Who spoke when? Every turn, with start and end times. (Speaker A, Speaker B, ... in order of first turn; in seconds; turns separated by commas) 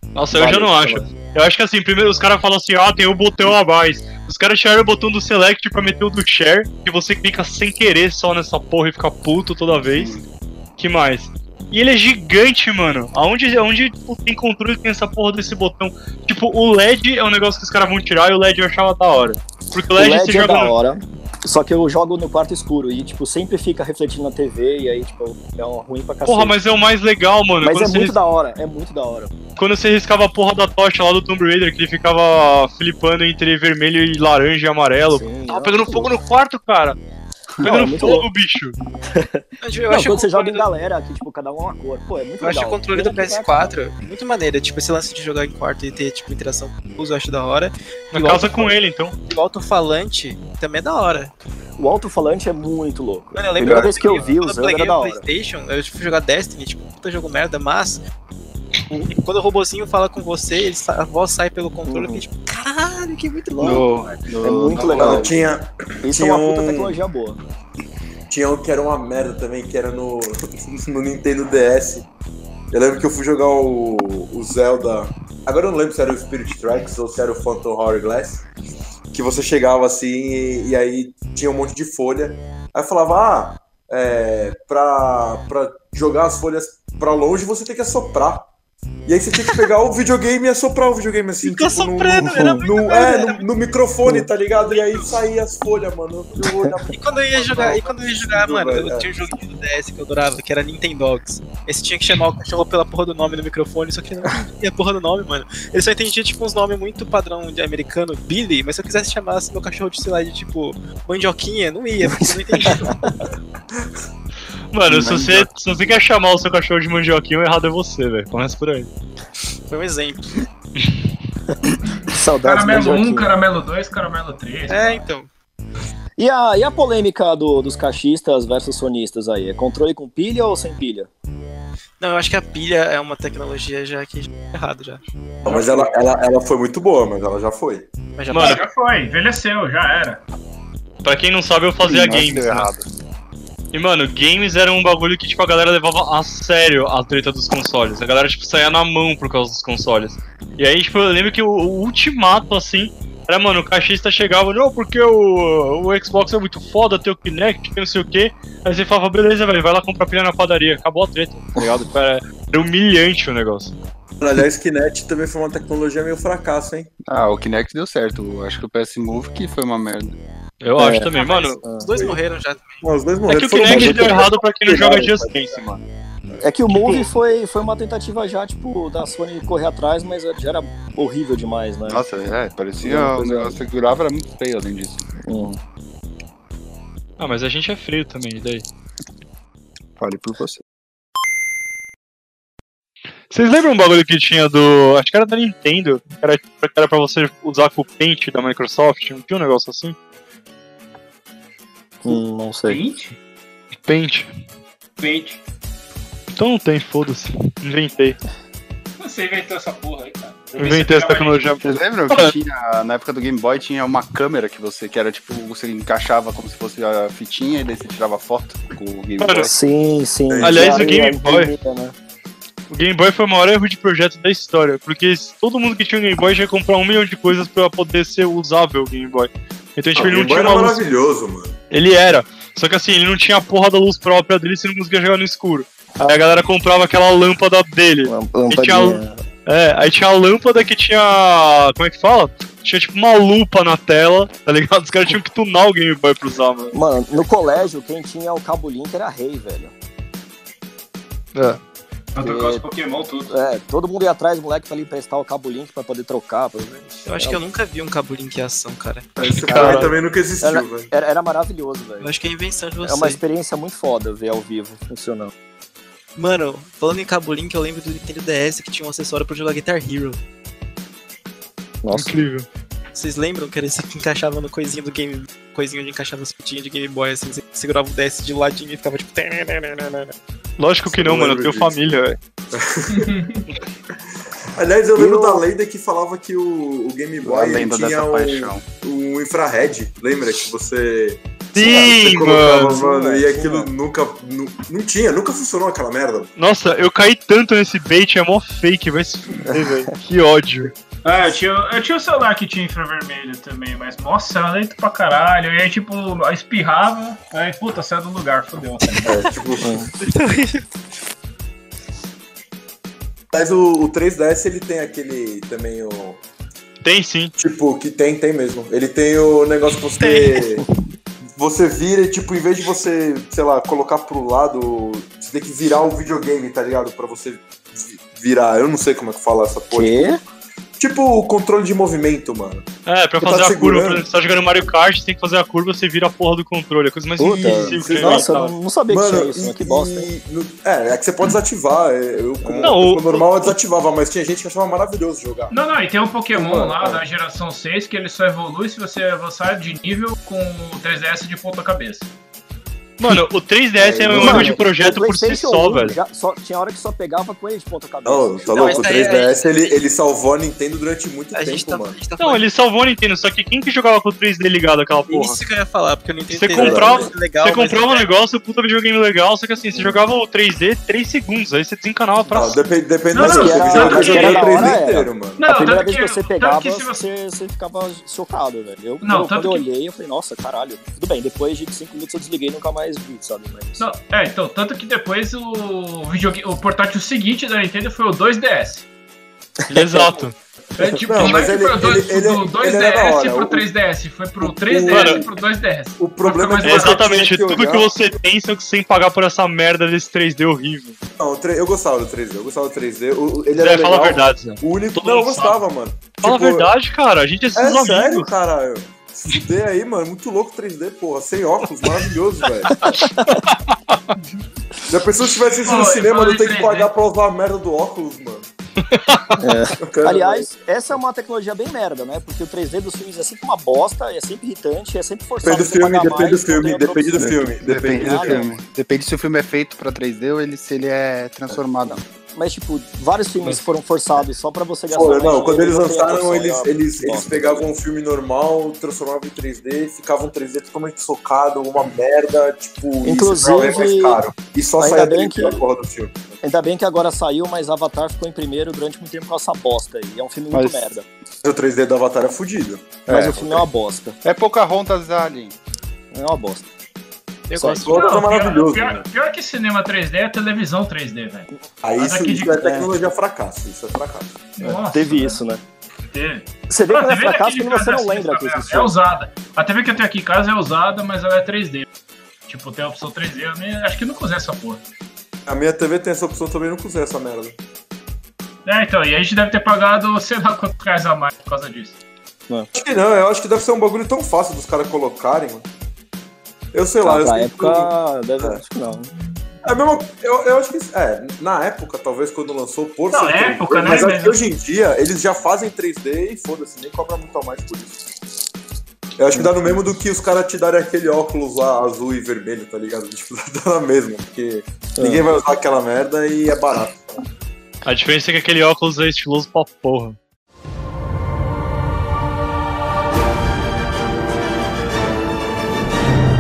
Speaker A: 0.1-10.2, Speaker B: 0.3-1.1, Speaker C: 9.9-10.2, Speaker A: 10.8-20.7, Speaker B: 19.9-26.6, Speaker A: 26.2-28.1, Speaker B: 27.6-29.3, Speaker A: 29.6-37.0, Speaker B: 35.1-36.1, Speaker B: 37.6-38.3, Speaker A: 37.6-38.8, Speaker B: 39.1-43.7, Speaker D: 39.6-40.6, Speaker D: 42.4-48.7, Speaker A: 48.1-49.1, Speaker D: 49.2-51.3, Speaker B: 51.8-55.2, Speaker D: 53.3-58.0, Speaker C: 53.6-53.9, Speaker D: 59.0-63.9, Speaker B: 61.9-62.2, Speaker C: 63.6-65.5, Speaker B: 64.4-65.3, Speaker E: 64.9-67.0, Speaker B: 66.0-67.4, Speaker E: 68.3-72.0, Speaker E: 72.7-78.4, Speaker E: 79.1-88.5, Speaker E: 89.0-99.3, Speaker D: 91.4-93.5, Speaker B: 92.3-92.6, Speaker D: 94.6-95.2, Speaker B: 96.4-96.7, Speaker D: 96.9-113.1, Speaker B: 112.2-113.1, Speaker A: 114.7-118.9, Speaker C: 114.9-115.5, Speaker D: 119.7-120.5, Speaker B: 122.1-123.3, Speaker F: 122.4-125.1, Speaker D: 124.7-125.3, Speaker B: 126.2-131.1, Speaker D: 132.0-135.0, Speaker E: 135.4-137.9, Speaker F: 135.4-136.0, Speaker D: 138.2-138.7, Speaker A: 138.3-138.7, Speaker F: 138.4-140.2, Speaker A: 141.0-142.7, Speaker C: 141.8-142.8, Speaker A: 143.7-163.7, Speaker E: 164.2-166.9, Speaker C: 167.1-170.2, Speaker A: 170.6-171.6, Speaker B: 170.8-171.1, Speaker D: 171.1-172.8, Speaker B: 171.6-171.9, Speaker E: 172.8-175.6, Speaker A: 173.2-175.8, Speaker B: 173.6-175.1, Speaker B: 176.4-182.0, Speaker A: 176.7-177.1, Speaker C: 181.9-185.0, Speaker B: 182.8-183.6, Speaker B: 185.2-185.6, Speaker A: 187.2-188.6, Speaker C: 190.0-190.6, Speaker A: 193.3-199.9, Speaker B: 202.0-202.8, Speaker F: 202.7-203.2, Speaker A: 203.8-204.3, Speaker F: 205.0-205.4, Speaker A: 206.3-208.2, Speaker F: 209.0-211.5, Speaker A: 210.6-212.3, Speaker C: 211.6-219.5, Speaker A: 219.2-219.5, Speaker B: 219.5-221.9, Speaker E: 220.3-220.8, Speaker A: 220.4-221.5, Speaker A: 222.7-230.8, Speaker E: 229.9-231.6, Speaker A: 231.7-246.7, Speaker B: 238.1-239.2, Speaker B: 246.7-249.7, Speaker F: 252.1-253.3, Speaker B: 252.2-252.6, Speaker B: 253.3-257.4, Speaker D: 257.1-259.8, Speaker E: 259.2-260.9, Speaker A: 259.4-259.9, Speaker B: 259.6-259.8, Speaker B: 260.4-262.1, Speaker D: 262.0-263.2, Speaker B: 262.8-265.3, Speaker D: 266.1-270.2, Speaker B: 271.8-272.1, Speaker A: 271.9-272.4, Speaker D: 272.9-280.1, Speaker A: 280.6-282.2, Speaker E: 280.9-281.9, Speaker E: 282.5-283.1, Speaker F: 282.9-283.4, Speaker E: 284.4-296.3, Speaker B: 284.9-285.4, Speaker C: 287.2-288.6, Speaker A: 291.5-292.8, Speaker B: 292.7-293.7, Speaker A: 296.4-300.7, Speaker F: 301.0-309.2, Speaker E: 309.1-309.7, Speaker D: 309.1-309.4, Speaker B: 309.6-309.9, Speaker D: 310.0-310.7, Speaker E: 313.3-316.2, Speaker A: 316.8-317.3, Speaker E: 317.4-320.6, Speaker D: 320.0-320.4, Speaker E: 321.4-330.2, Speaker B: 329.7-330.2, Speaker E: 330.8-332.7, Speaker A: 332.8-338.5, Speaker E: 333.2-334.1, Speaker B: 337.2-340.1, Speaker E: 337.3-338.3, Speaker E: 338.9-345.5, Speaker B: 342.4-342.8, Speaker A: 342.6-343.6, Speaker F: 345.5-352.1, Speaker E: 346.4-347.0, Speaker A: 353.0-355.9, Speaker E: 353.8-354.6, Speaker B: 354.1-359.3, Speaker E: 358.0-362.0, Speaker D: 358.5-359.8, Speaker D: 361.3-362.5, Speaker A: 362.2-365.4, Speaker D: 365.1-368.1, Speaker A: 366.3-372.6, Speaker E: 366.5-367.1, Speaker E: 369.7-370.0, Speaker E: 372.3-375.4, Speaker F: 373.1-374.7, Speaker B: 373.2-383.9, Speaker F: 375.4-377.0, Speaker F: 379.0-379.6, Speaker F: 383.8-388.9, Speaker B: 389.7-390.2, Speaker A: 389.7-390.4, Speaker F: 390.8-397.1, Speaker E: 391.0-393.7, Speaker E: 394.4-395.3, Speaker A: 394.9-395.2, Speaker E: 396.0-397.9, Speaker A: 396.6-400.9, Speaker E: 401.2-406.7, Speaker A: 403.6-405.5, Speaker A: 406.2-408.3, Speaker E: 407.6-412.8, Speaker A: 412.8-414.1, Speaker B: 412.9-413.4, Speaker E: 414.9-418.5, Speaker F: 415.6-416.9, Speaker A: 418.8-419.4, Speaker B: 419.4-428.4, Speaker E: 419.8-420.5, Speaker E: 425.4-428.4, Speaker C: 427.2-432.0, Speaker B: 431.8-437.7, Speaker E: 434.9-446.3, Speaker B: 443.0-444.2, Speaker B: 444.8-445.6, Speaker B: 446.4-451.0, Speaker C: 450.5-450.8, Speaker E: 451.4-452.9, Speaker C: 453.1-453.6, Speaker B: 453.1-454.1, Speaker C: 454.2-455.5, Speaker B: 456.1-456.7, Speaker D: 457.5-458.2, Speaker B: 457.5-457.9, Speaker E: 457.8-459.0, Speaker F: 457.9-462.9, Speaker E: 461.8-464.5, Speaker F: 464.6-465.4, Speaker B: 464.6-465.6, Speaker F: 466.1-471.9, Speaker B: 466.7-468.9, Speaker F: 472.5-474.8, Speaker E: 475.4-477.6, Speaker F: 478.6-482.0, Speaker E: 482.7-485.6, Speaker E: 486.7-488.6, Speaker B: 487.0-489.1, Speaker E: 489.6-497.9, Speaker F: 493.1-494.4, Speaker E: 499.2-507.0, Speaker B: 499.3-499.8, Speaker B: 505.0-505.3, Speaker A: 507.8-510.2